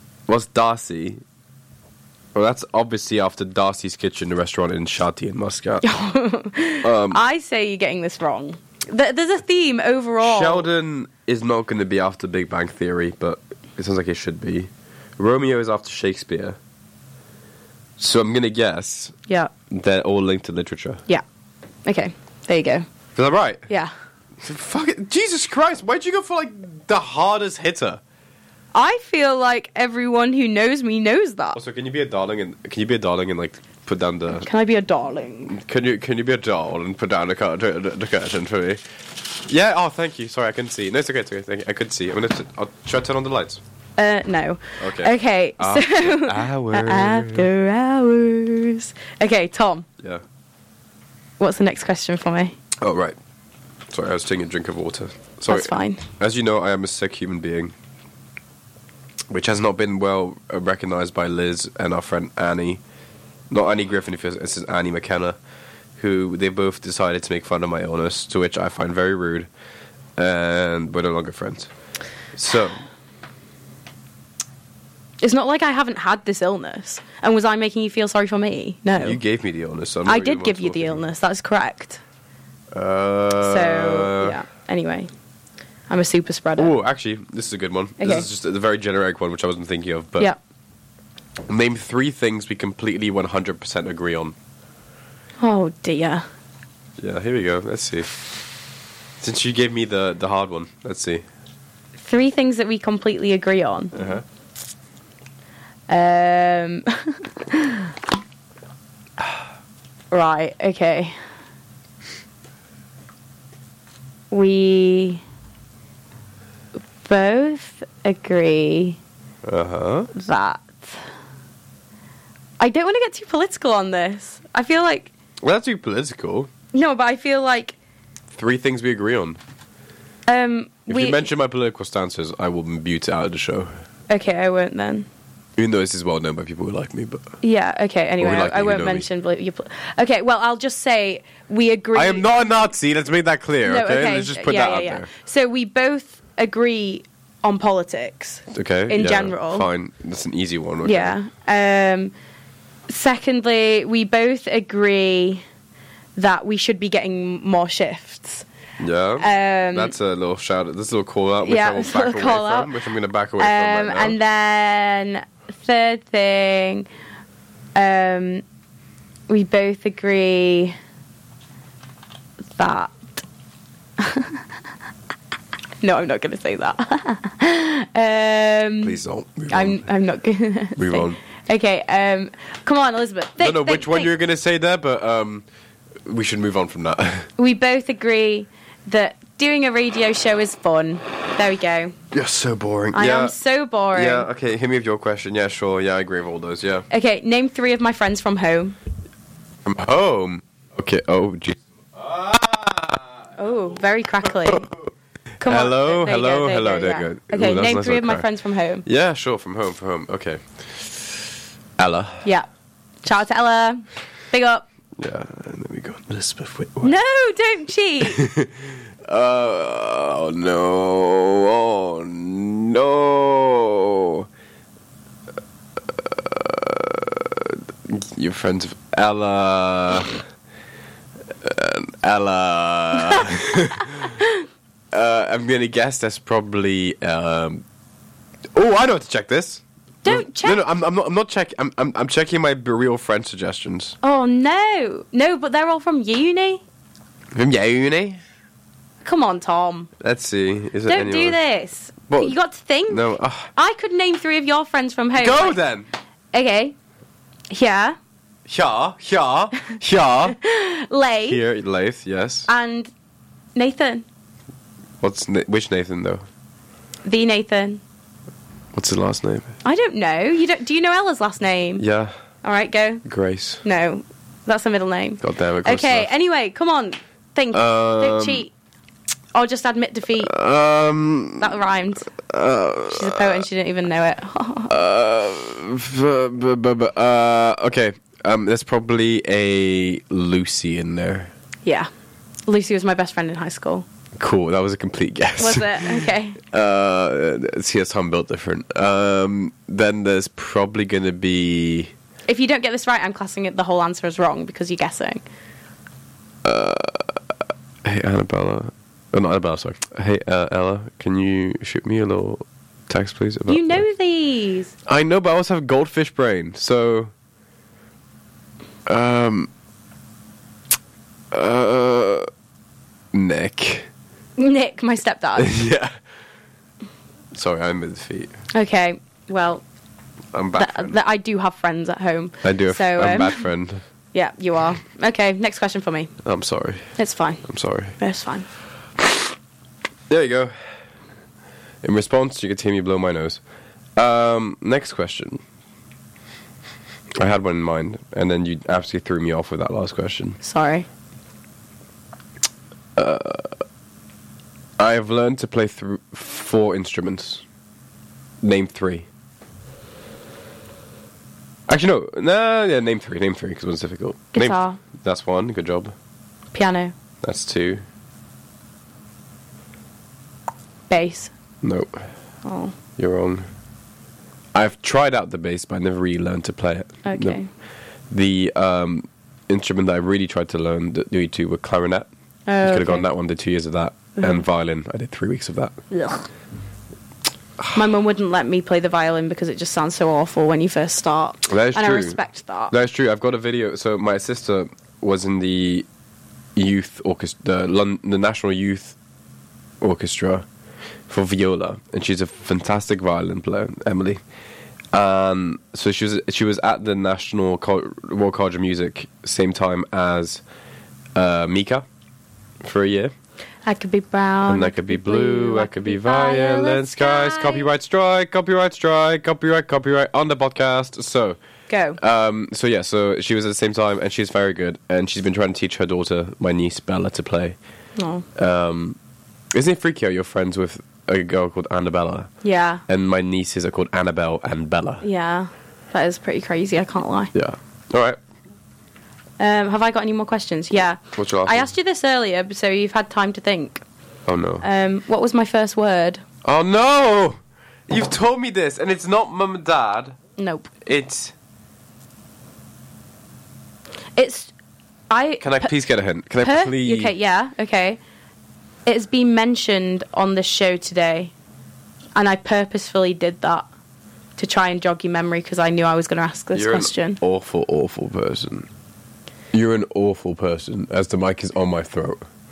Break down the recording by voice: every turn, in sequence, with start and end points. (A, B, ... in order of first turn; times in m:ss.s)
0:00.3-0:01.2 A
0:02.3-0:05.8 A
0:05.8-0:10.7 B
0:06.8-0:07.2 A
0:10.2-0:16.6 A
0:18.0-0:19.1 A
0:19.7-0:21.0 A
0:21.8-0:22.8 B
0:23.2-0:23.7 A
0:24.4-0:28.0 A
0:28.7-0:31.6 B
0:31.5-0:34.5 A
0:34.4-0:35.6 B
0:35.5-0:43.6 A
0:44.0-0:49.8 B
0:44.8-0:47.5 A
0:51.4-0:52.6 B
0:52.8-0:53.2 A
0:53.9-0:57.7 A
0:55.5-0:56.0 B
0:59.3-1:02.8 A
1:03.5-1:05.4 A
1:06.0-1:09.5 A
1:10.2-1:11.7 A
1:12.3-1:12.8 A
1:15.2-1:19.2 B
1:19.0-1:21.0 A
1:20.0-1:22.0 B
1:22.7-1:24.4 A
1:23.4-1:25.1 B
1:25.9-1:26.7 B
1:26.6-1:30.3 A
1:28.0-1:28.3 B
1:31.5-1:34.3 A
1:35.4-1:36.2 B
1:37.0-1:38.2 A
1:39.2-1:41.2 A
1:42.0-1:44.0 B
1:43.9-1:44.2 A
1:45.9-1:47.9 B
1:50.1-1:51.2 B
1:54.3-1:55.2 B
1:57.0-1:59.0 B
1:59.4-2:00.1 A
2:00.1-2:01.0 B
2:02.6-2:05.1 B
2:05.4-2:06.5 A
2:06.7-2:07.8 B
2:08.3-2:09.4 A
2:10.3-2:11.2 B
2:10.9-2:13.7 A
2:14.1-2:15.1 B
2:15.6-2:17.2 A
2:17.4-2:22.3 B
2:18.2-2:19.0 A
2:21.9-2:25.1 A
2:23.6-2:29.7 B
2:28.5-2:31.2 A
2:30.8-2:32.1 B
2:32.9-2:35.4 B
2:36.2-2:38.4 B
2:38.8-2:44.2 A
2:39.2-2:39.9 B
2:41.4-2:42.7 B
2:43.4-2:46.8 B
2:47.7-2:48.4 B
2:49.3-2:50.8 B
2:52.6-2:53.2 B
2:54.0-2:54.4 B
2:55.8-2:59.0 B
2:58.8-2:59.8 A
2:59.5-3:04.1 B
3:00.8-3:01.2 A
3:03.4-3:05.4 A
3:06.0-3:07.3 A
3:07.4-3:12.0 B
3:12.1-3:13.3 A
3:12.9-3:14.3 B
3:13.9-3:16.9 A
3:16.9-3:18.7 B
3:19.6-3:23.3 A
3:23.4-3:24.7 B
3:24.2-3:24.8 A
3:25.4-3:28.3 A
3:25.4-3:28.8 B
3:28.8-3:31.2 A
3:31.8-3:32.2 A
3:33.0-3:34.6 B
3:35.0-3:36.9 A
3:36.8-3:38.2 B
3:38.0-3:44.3 A
3:45.8-3:50.2 A
3:51.4-3:54.2 A
3:54.9-3:57.6 A
3:58.5-4:04.0 A
4:00.0-4:00.6 B
4:04.0-4:06.6 B
4:07.3-4:08.2 A
4:09.0-4:09.9 B
4:10.0-4:11.4 A
4:10.9-4:15.6 B
4:12.1-4:12.4 A
4:12.9-4:13.5 A
4:15.2-4:15.9 A
4:16.3-4:16.7 B
4:17.5-4:18.0 B
4:18.5-4:20.4 A
4:20.3-4:21.4 B
4:21.2-4:22.5 A
4:22.5-4:22.9 B
4:23.6-4:24.0 B
4:25.0-4:26.2 A
4:27.0-4:27.8 B
4:28.7-4:29.5 A
4:29.6-4:31.8 B
4:31.8-4:32.1 A
4:32.4-4:33.0 B
4:33.0-4:33.6 A
4:33.6-4:38.5 B
4:35.2-4:36.1 A
4:37.5-4:38.4 A
4:39.3-4:40.3 B
4:40.2-4:41.6 A
4:41.4-4:42.1 B
4:42.1-4:43.4 A
4:42.9-4:44.7 B
4:44.7-4:51.3 A
4:51.6-4:51.9 B
4:52.5-4:53.8 B
4:54.2-5:01.9 A
4:55.4-4:56.4 B
5:02.3-5:05.2 B
5:06.4-5:07.2 A
5:07.8-5:13.8 A
5:13.5-5:14.7 B
5:14.8-5:17.1 A
5:18.9-5:19.5 A
5:21.3-5:22.3 A
5:23.1-5:23.9 A
5:24.4-5:25.6 B
5:25.4-5:25.9 A
5:27.3-5:28.3 A
5:28.5-5:29.6 B
5:30.3-5:31.0 A
5:30.6-5:33.4 B
5:32.4-5:33.8 A
5:34.1-5:36.1 B
5:36.2-5:36.9 A
5:37.0-5:37.4 B
5:37.4-5:38.0 A
5:38.0-5:38.5 B
5:39.0-5:39.3 A
5:40.1-5:40.5 A
5:41.8-5:43.4 A
5:44.0-5:45.4 A
5:47.2-5:50.4 A
5:50.4-5:50.9 B
5:53.0-5:53.6 A
5:54.8-5:57.4 A
5:58.4-5:59.1 A
6:01.7-6:05.9 A
6:04.3-6:04.8 B
6:06.5-6:06.9 B
6:07.2-6:07.8 A
6:10.9-6:11.3 B
6:11.6-6:12.0 A
6:12.4-6:12.7 B
6:13.0-6:13.4 A
6:14.5-6:17.4 A
6:17.0-6:17.5 B
6:18.1-6:22.1 A
6:22.5-6:23.0 B
6:22.6-6:25.8 A
6:24.2-6:24.4 B
6:25.9-6:26.3 B
6:27.7-6:32.7 B
6:31.5-6:32.2 A
6:32.7-6:35.8 A
6:36.6-6:39.0 A
6:39.8-6:40.4 A
6:41.1-6:44.2 A
6:44.9-6:50.4 A
6:51.1-6:51.8 A
6:52.6-6:53.1 A
6:53.6-6:57.7 B
6:54.4-7:01.4 A
7:01.7-7:02.0 B
7:02.0-7:07.6 A
7:08.0-7:08.2 B
7:08.4-7:09.0 A
7:09.5-7:12.3 A
7:12.4-7:12.8 B
7:12.9-7:15.0 A
7:15.0-7:17.3 B
7:17.3-7:18.2 A
7:19.4-7:23.8 B
7:21.1-7:21.7 A
7:24.3-7:24.6 A
7:24.6-7:26.2 B
7:26.4-7:30.2 A
7:30.4-7:30.7 B
7:30.8-7:31.3 A
7:34.2-7:34.5 B
7:35.1-7:35.7 B
7:35.4-7:37.1 A
7:36.4-7:38.0 B
7:38.8-7:41.3 B
7:42.1-7:43.6 B
7:44.4-7:47.2 B
7:46.5-7:48.7 A
7:49.5-7:52.2 A